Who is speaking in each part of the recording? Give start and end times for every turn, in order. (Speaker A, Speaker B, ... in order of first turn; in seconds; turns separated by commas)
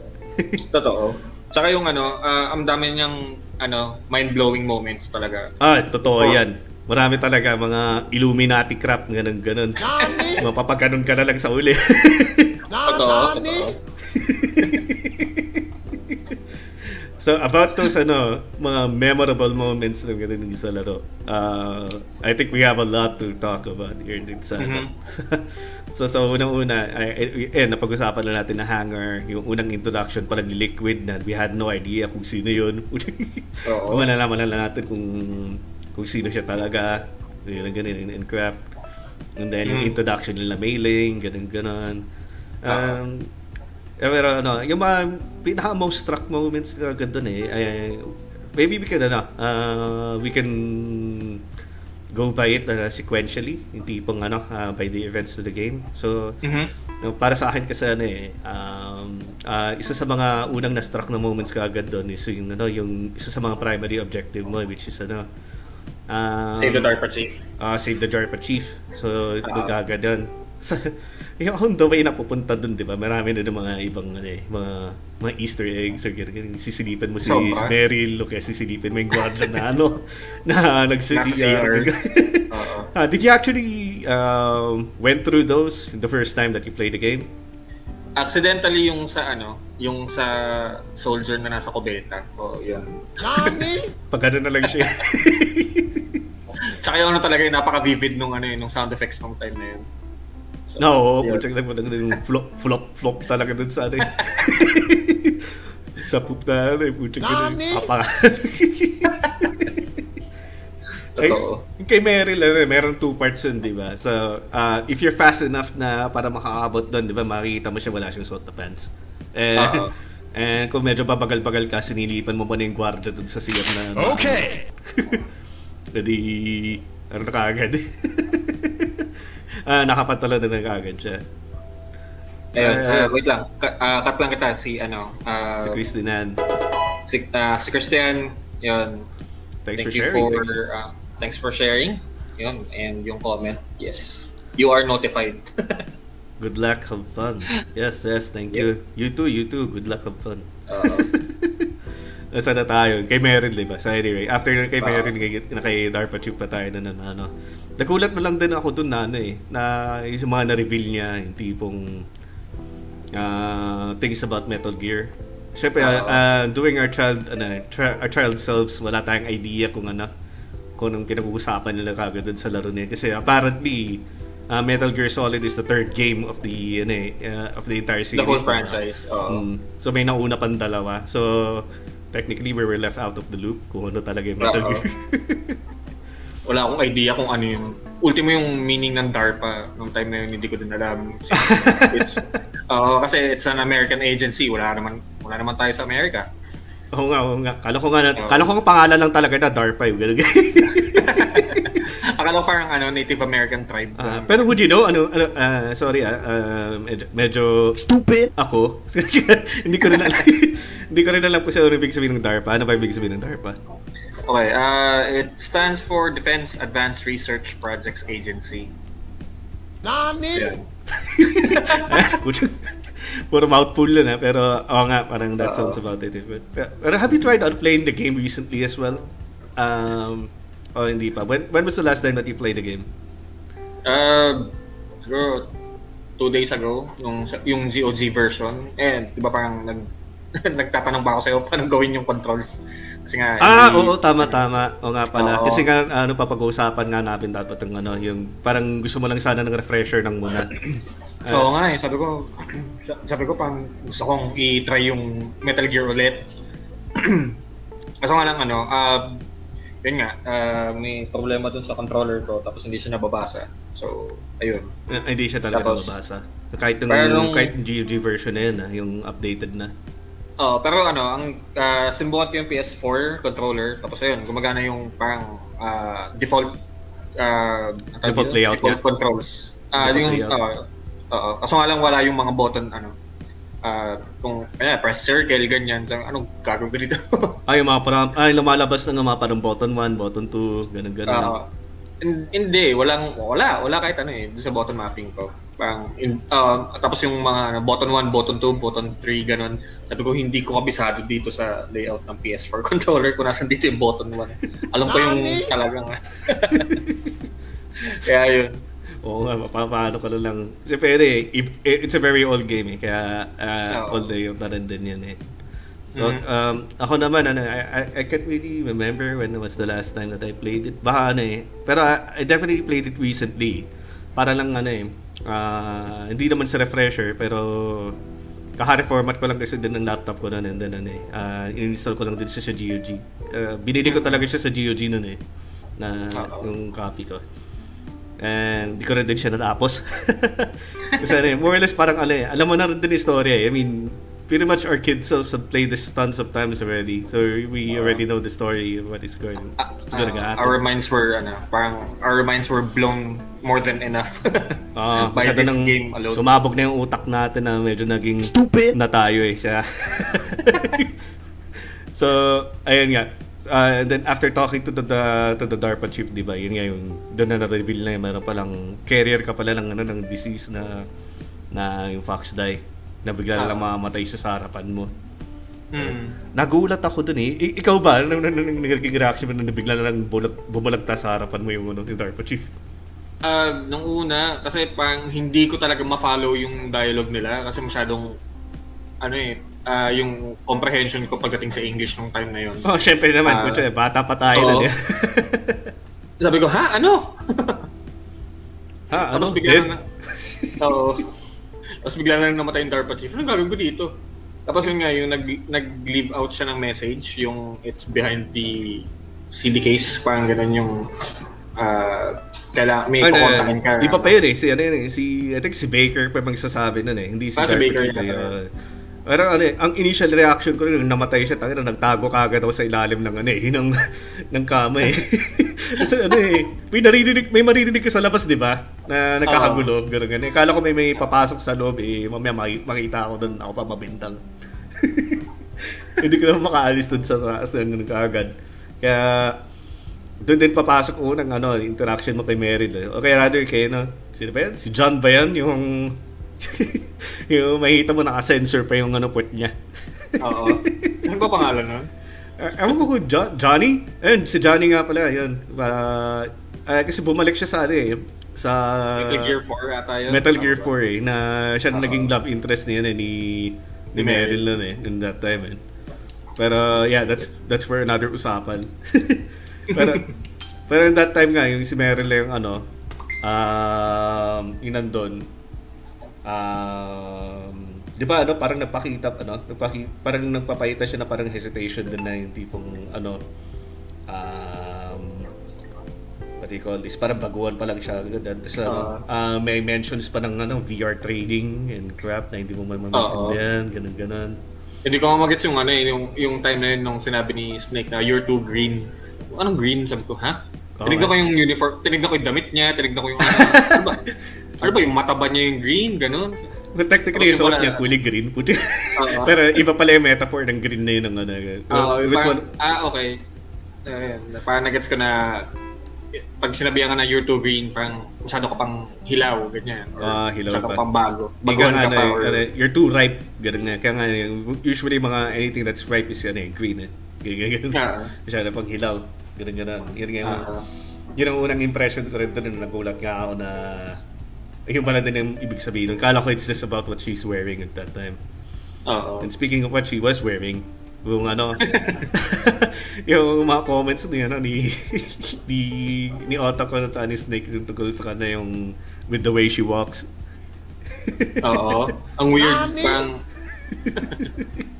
Speaker A: 0.7-5.5, Speaker B: 5.6-9.8, Speaker A: 6.1-6.4, Speaker C: 9.8-10.5, Speaker A: 10.0-10.3, Speaker B: 10.3-12.6, Speaker C: 12.7-13.7, Speaker A: 12.8-13.8, Speaker B: 14.0-38.6, Speaker A: 24.6-24.9, Speaker A: 33.6-34.0, Speaker B: 39.4-42.0, Speaker A: 39.6-39.9, Speaker B: 42.6-43.3, Speaker A: 42.7-43.0, Speaker B: 44.0-51.4, Speaker B: 52.1-56.4, Speaker A: 56.4-56.7, Speaker B: 57.0-65.3, Speaker B: 66.1-66.9, Speaker A: 66.6-67.3, Speaker B: 67.6-87.3, Speaker A: 69.4-69.7, Speaker A: 77.2-77.7, Speaker A: 81.1-81.9, Speaker A: 82.5-82.9, Speaker A: 88.2-93.7, Speaker C: 93.2-93.9, Speaker B: 94.1-96.2, Speaker A: 96.6-99.8, Speaker A: 100.7-101.4, Speaker B: 100.8-110.0, Speaker A: 104.2-104.5, Speaker C: 107.2-107.9, Speaker A: 109.1-109.7, Speaker A: 111.2-111.6, Speaker B: 111.2-125.2, Speaker A: 119.5-119.9, Speaker B: 125.9-129.1, Speaker B: 129.6-131.2, Speaker A: 132.5-135.8, Speaker B: 132.6-133.1, Speaker B: 135.6-136.4, Speaker A: 137.1-139.1, Speaker B: 139.6-140.5, Speaker A: 139.8-145.8, Speaker B: 146.4-151.7, Speaker A: 150.7-151.1, Speaker B: 152.3-162.0, Speaker A: 154.8-155.1, Speaker B: 163.1-170.1, Speaker A: 165.8-166.2, Speaker B: 170.8-185.6, Speaker A: 178.1-179.4, Speaker A: 184.4-184.8, Speaker A: 186.5-196.2, Speaker B: 191.3-192.2, Speaker B: 196.9-201.8, Speaker A: 198.2-198.4, Speaker A: 200.7-204.5, Speaker B: 204.0-213.6, Speaker A: 214.2-218.7, Speaker C: 219.8-220.5, Speaker A: 220.3-220.6, Speaker B: 220.9-229.0, Speaker A: 221.2-222.2, Speaker A: 225.4-225.8, Speaker B: 229.6-232.9, Speaker A: 233.8-234.5, Speaker A: 235.0-235.5, Speaker A: 236.2-244.4, Speaker B: 243.4-250.6, Speaker A: 245.1-245.7, Speaker B: 251.2-251.5, Speaker A: 251.3-256.2, Speaker A: 256.9-257.3, Speaker A: 258.0-259.2, Speaker A: 259.8-264.7, Speaker B: 264.9-269.7, Speaker A: 265.5-265.9, Speaker A: 266.9-267.5, Speaker A: 270.4-276.6, Speaker A: 277.2-282.9, Speaker B: 278.0-278.8, Speaker B: 279.8-280.4, Speaker A: 283.6-287.4, Speaker B: 287.5-291.4, Speaker A: 291.1-291.4, Speaker A: 292.0-306.9, Speaker C: 304.9-305.5, Speaker B: 306.5-307.1, Speaker A: 307.8-308.6, Speaker B: 309.0-315.2, Speaker A: 313.7-314.1, Speaker A: 315.9-316.2, Speaker B: 315.9-328.0, Speaker B: 328.6-335.2, Speaker A: 333.9-334.2, Speaker B: 335.8-337.2, Speaker A: 336.1-336.5, Speaker B: 338.2-350.6, Speaker A: 349.6-356.2, Speaker B: 354.7-360.9, Speaker B: 361.9-370.8, Speaker B: 371.5-374.9, Speaker A: 373.4-373.7, Speaker A: 375.7-376.1, Speaker B: 375.8-382.5, Speaker A: 383.2-388.1, Speaker A: 389.0-392.7, Speaker B: 392.6-395.7, Speaker A: 393.2-393.6, Speaker A: 394.3-394.7, Speaker A: 396.2-397.6, Speaker B: 398.9-400.6, Speaker A: 399.1-399.8, Speaker A: 400.6-401.1, Speaker A: 401.8-403.9, Speaker A: 404.5-410.9, Speaker A: 411.6-414.1, Speaker B: 413.0-418.5, Speaker A: 417.4-418.3, Speaker B: 419.1-434.2, Speaker A: 429.3-429.7, Speaker B: 434.8-439.4, Speaker B: 440.2-451.1, Speaker A: 450.2-451.9, Speaker B: 452.4-459.3, Speaker A: 458.9-460.7, Speaker B: 460.1-465.6, Speaker A: 461.7-462.1, Speaker A: 463.9-464.5, Speaker B: 466.4-470.1, Speaker A: 469.7-470.0, Speaker B: 470.7-472.6, Speaker B: 473.2-475.3, Speaker B: 476.2-483.2, Speaker B: 484.1-485.3, Speaker B: 486.4-494.4, Speaker A: 488.6-489.0, Speaker A: 492.9-493.4, Speaker A: 494.8-504.0, Speaker B: 500.8-501.1, Speaker B: 503.2-503.9, Speaker A: 504.6-506.5, Speaker B: 506.7-512.5, Speaker A: 507.1-507.8, Speaker A: 508.9-509.6, Speaker A: 511.7-513.2, Speaker A: 513.9-515.5, Speaker A: 516.2-522.4, Speaker B: 520.0-520.8, Speaker B: 521.4-530.5, Speaker A: 527.7-528.1, Speaker A: 530.2-530.6, Speaker B: 531.2-534.0, Speaker B: 534.7-538.2, Speaker A: 538.9-539.3, Speaker B: 539.2-550.1, Speaker A: 541.6-542.1, Speaker B: 551.0-551.9, Speaker A: 551.4-553.2, Speaker C: 552.4-553.1, Speaker B: 553.8-554.5, Speaker A: 553.9-554.3